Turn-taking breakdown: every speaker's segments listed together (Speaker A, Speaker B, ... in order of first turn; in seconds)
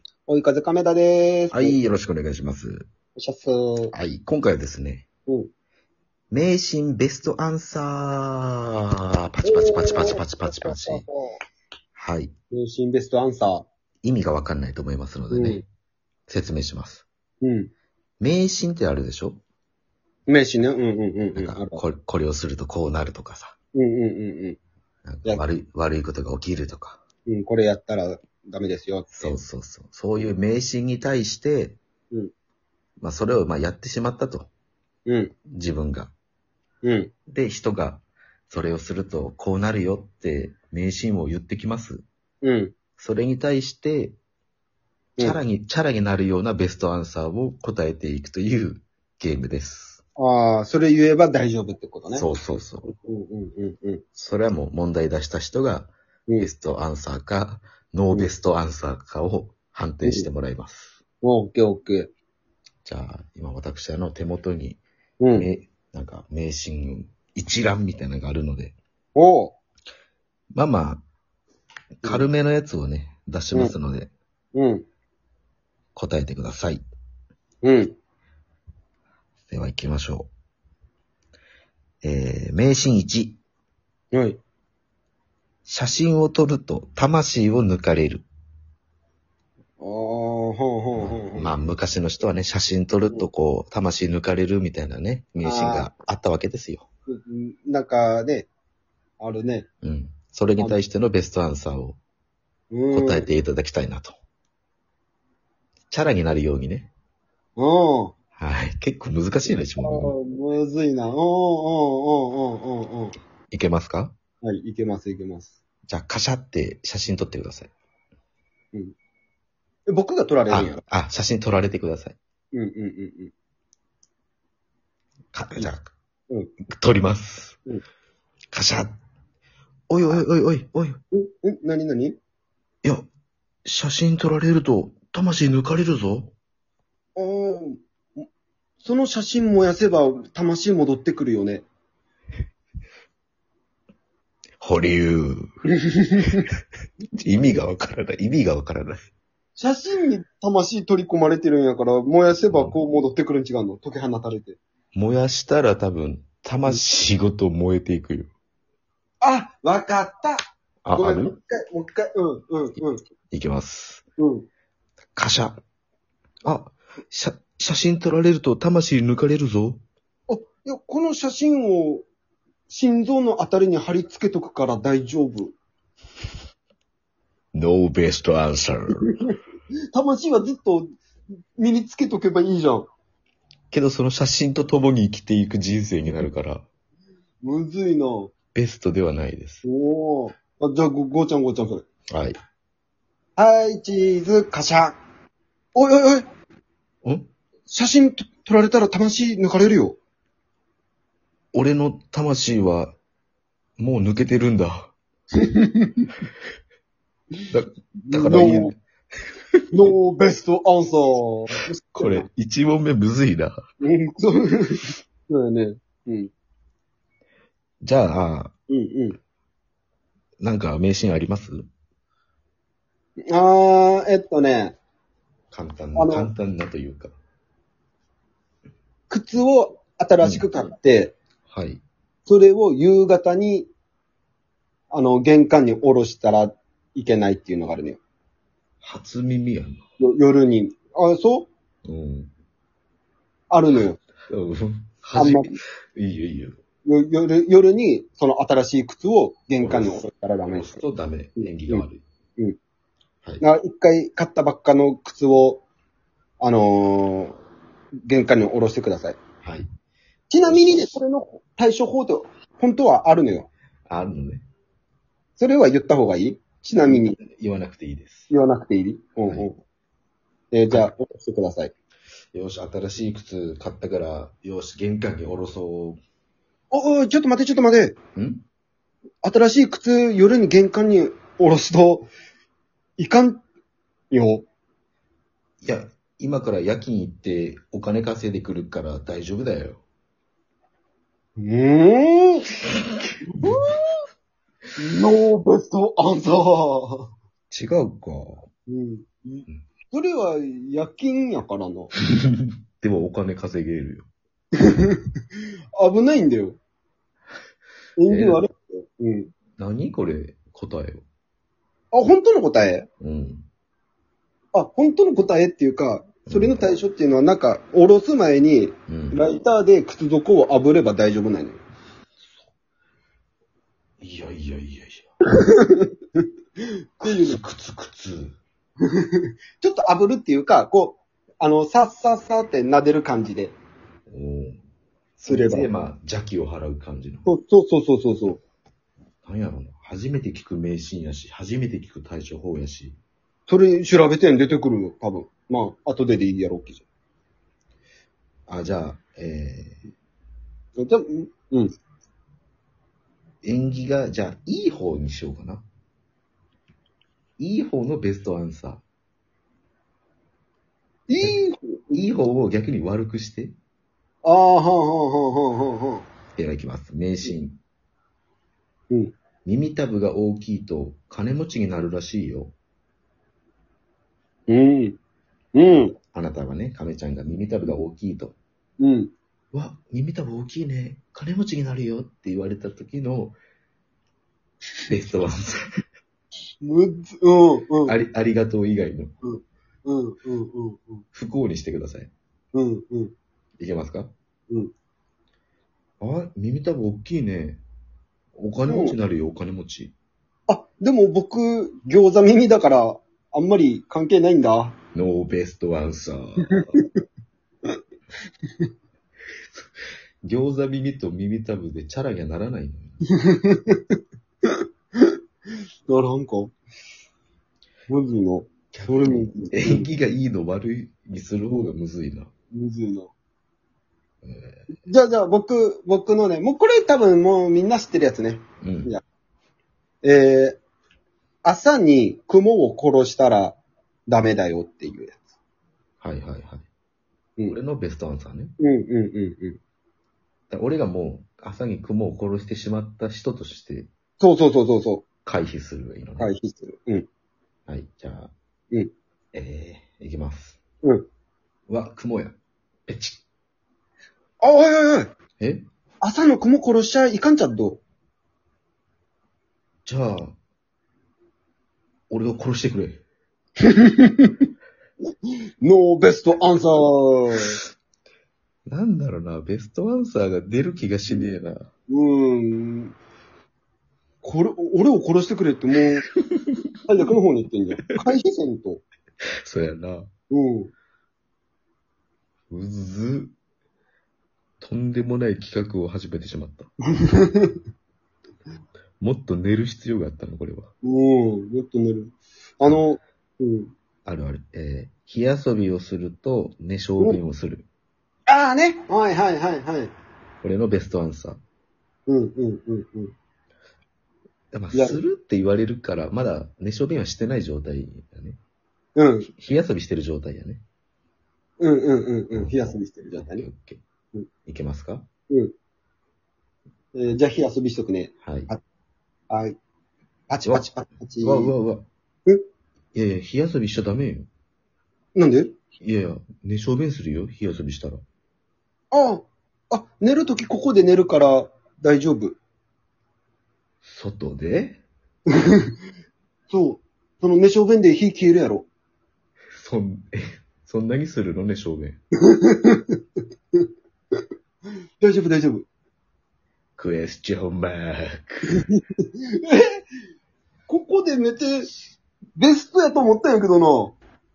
Speaker A: 0.3-1.8, 3.2-3.9, 9.4-11.3, 12.5-13.7, 15.3-15.6, 17.4-17.7, 20.3-21.8, 23.7-24.6, 27.3-29.3, 35.1-35.3, 36.8-37.1, 42.4-42.7, 50.2-52.3, 53.1-54.0, 61.2-62.1, 65.2-65.5, 69.2-69.5, 74.5-74.8, 77.6-78.0, 84.1-84.4, 89.8-91.5, 95.4-95.9, 97.1-98.5, 99.2-99.7, 102.7-103.3, 107.6-108.1, 109.5-113.2, 114.4-115.6, 119.9-120.8, 122.5-123.3, 131.1-132.2, 137.2-138.2, 138.8-141.7, 146.0-146.4, 149.6-154.6, 159.2-160.4, 161.0-163.0, 164.2-164.5, 170.3-172.0, 172.7-175.6, 179.9-180.9, 181.6-182.9, 187.4-188.3, 189.6-191.8, 193.4-195.0, 195.8-196.3, 197.7-200.0, 205.4-206.1, 208.1-208.7, 209.7-212.3, 213.8-216.3, 218.7-219.2, 223.3-224.8, 226.0-226.3, 229.1-231.1, 232.3-233.7, 234.9-238.0, 240.0-241.5, 243.5-244.0, 245.2-245.6, 246.9-250.8, 251.4-251.8, 253.4-255.6, 256.4-257.4, 258.1-259.2, 260.3-263.5, 265.4-267.2, 268.3-269.6, 270.5-271.7, 276.7-277.9, 279.2-282.1, 283.0-283.4, 284.1-284.4, 291.4-292.5, 293.3-293.8, 294.8-297.1, 298.7-301.9, 304.7-305.0, 305.8-306.6, 308.0-309.3, 311.9-312.9, 314.5-321.6, 325.4-325.9, 327.0-327.4, 329.0-333.6, 335.3-335.7, 337.3-338.4, 343.5-346.9, 350.8-351.7, 361.1-362.0, 364.2-366.1, 374.5-375.0, 375.6-376.0, 378.8-379.1, 386.6-387.9, 389.2-391.0, 392.5-393.1, 398.7-399.0, 400.5-404.8, 406.4-406.8, 413.2-413.8, 415.9-416.5, 417.9-419.9, 422.5-423.1, 424.9-429.0, 430.0-430.6, 431.4-435.3, 438.6-439.6, 444.2-445.1, 446.2-447.1, 454.4-455.1, 456.0-457.8, 463.6-464.5, 465.6-467.6, 471.9-472.9, 474.2-476.1, 476.9-478.8, 480.3-480.7, 487.0-487.6, 490.8-493.7, 498.3-499.9, 502.1-503.1, 504.7-505.0, 509.0-509.3, 511.6-513.5, 517.0-518.6, 519.3-519.6, 520.3-521.5, 525.1-525.5, 528.9-532.4, 535.4-535.8, 536.5-538.7, 542.2-543.0, 545.0-545.7, 548.5-548.8, 549.4-549.8, 550.7-551.7, 552.4-554.0
Speaker B: 1.5-2.9, 3.9-5.0, 6.3-11.1, 11.9-12.3, 14.0-15.6, 16.3-17.1, 18.2-19.4, 21.4-23.6, 25.1-27.0, 29.1-31.8, 33.0-34.5, 35.5-36.1, 37.3-42.0, 43.0-44.2, 45.2-50.0, 52.1-52.9, 54.1-61.0, 62.9-64.8, 65.3-68.8, 70.5-71.1, 72.0-74.1, 76.0-76.8, 79.5-80.3, 82.0-83.4, 85.7-88.3, 91.0-96.9, 99.8-102.0, 102.9-104.2, 105.9-106.9, 108.4-110.2, 113.5-114.1, 115.9-117.7, 120.5-122.2, 125.3-125.9, 126.7-127.6, 128.5-128.9, 129.9-131.0, 133.7-136.3, 144.6-145.4, 147.2-149.0, 154.9-158.3, 160.8-161.4, 163.3-164.0, 165.2-165.6, 166.4-169.8, 177.5-179.1, 183.7-186.7, 188.6-189.6, 192.1-192.4, 201.5-202.9, 203.8-204.9, 207.5-208.7, 211.9-213.6, 217.8-218.5, 220.4-221.7, 225.5-227.1, 230.2-230.5, 231.5-231.8, 238.8-239.8, 241.9-242.3, 244.3-246.6, 249.6-252.0, 260.5-260.9, 263.9-264.4, 266.9-268.3, 272.3-276.0, 278.2-278.4, 285.6-289.8, 297.5-298.5, 302.2-304.1, 308.1-308.4, 309.6-311.1, 313.0-313.5, 316.3-316.6, 318.9-319.2, 324.0-325.1, 327.1-328.4, 334.1-334.6, 335.2-337.3, 339.2-343.0, 348.5-349.8, 353.4-355.6, 357.4-358.8, 361.9-363.6, 366.4-367.6, 369.4-372.5, 376.1-378.4, 379.5-383.4, 384.9-385.6, 387.9-389.1, 391.1-392.1, 393.6-394.1, 396.0-397.6, 398.4-399.9, 404.9-406.6, 410.2-413.0, 418.7-422.3, 424.2-424.7, 428.6-428.9, 436.0-436.7, 437.5-438.5, 440.5-443.9, 445.2-446.3, 447.7-448.3, 449.3-450.6, 451.7-453.2, 455.4-455.7, 459.9-460.4, 462.1-463.0, 468.7-471.7, 476.2-476.7, 479.4-480.1, 482.5-483.4, 484.6-486.7, 489.0-490.7, 494.1-497.7, 500.4-501.4, 504.5-508.4, 509.3-510.6, 512.3-513.8, 514.5-515.1, 518.2-518.5, 521.2-521.9, 522.9-524.3, 525.8-528.0, 533.8-534.8, 539.6-542.0, 546.8-548.5